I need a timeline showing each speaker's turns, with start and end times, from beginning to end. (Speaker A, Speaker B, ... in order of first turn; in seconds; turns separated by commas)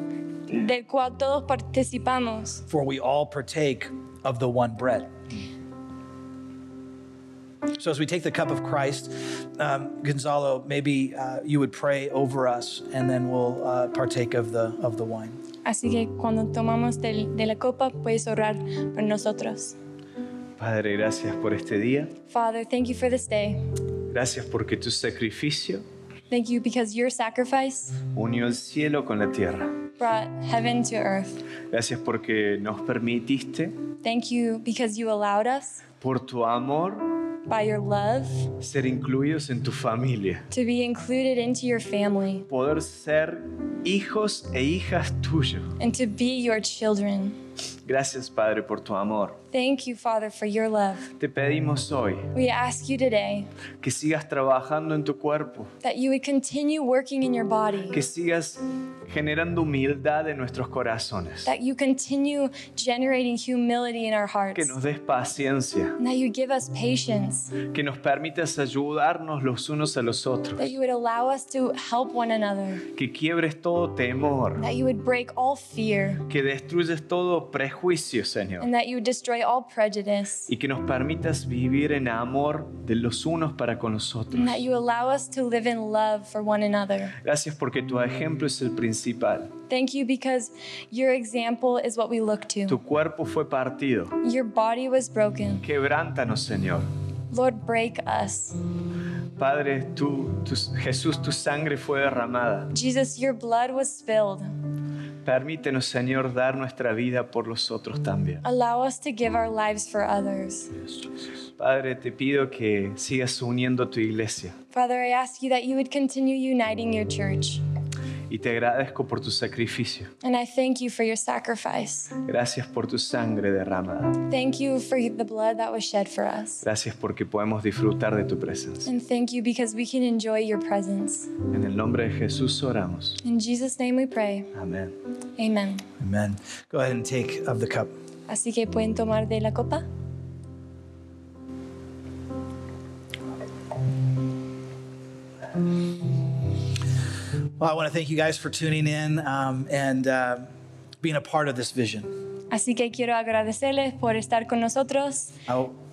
Speaker A: 0.5-2.6, Speaker B: 2.7-5.1, Speaker B: 7.8-15.4, Speaker A: 15.7-19.8, Speaker C: 20.6-22.1, Speaker A: 22.3-23.6, Speaker C: 24.1-25.8, Speaker A: 26.3-28.0, Speaker C: 28.1-29.8, Speaker A: 30.0-31.4, Speaker C: 31.7-33.8, Speaker A: 34.0-35.8, Speaker C: 36.0-37.1, Speaker A: 37.5-38.5, Speaker C: 38.6-40.5, Speaker A: 40.5-42.5, Speaker C: 42.5-45.7, Speaker A: 45.8-47.4, Speaker C: 47.9-49.4, Speaker A: 49.5-51.1, Speaker C: 51.2-52.3, Speaker A: 52.3-53.5, Speaker C: 53.8-55.7, Speaker A: 55.8-58.0, Speaker C: 57.9-61.5, Speaker A: 61.5-64.8, Speaker C: 64.5-66.0, Speaker A: 66.0-67.5, Speaker C: 67.6-70.8, Speaker A: 70.6-72.8, Speaker C: 73.0-74.6, Speaker A: 74.6-76.2, Speaker C: 76.3-78.7, Speaker A: 78.6-80.5, Speaker C: 80.5-84.6, Speaker A: 84.3-87.2, Speaker C: 87.2-89.5, Speaker A: 89.7-92.8, Speaker C: 92.7-94.2, Speaker A: 94.2-95.7, Speaker C: 95.6-96.9, Speaker A: 97.3-98.6, Speaker C: 99.4-102.7, Speaker A: 102.7-104.5, Speaker C: 105.2-108.4, Speaker A: 108.4-110.7, Speaker C: 111.6-114.6, Speaker A: 114.7-117.6, Speaker C: 118.3-120.1, Speaker A: 120.2-122.2, Speaker C: 122.2-124.2, Speaker A: 124.2-126.6, Speaker C: 126.6-128.9, Speaker A: 128.9-131.3, Speaker C: 131.5-133.2, Speaker A: 133.2-134.5, Speaker C: 134.6-134.9, Speaker A: 135.4-135.8, Speaker B: 136.0-137.9, Speaker A: 138.3-139.8, Speaker B: 147.6-150.5, Speaker B: 151.0-152.1, Speaker A: 152.5-155.4, Speaker B: 155.5-155.7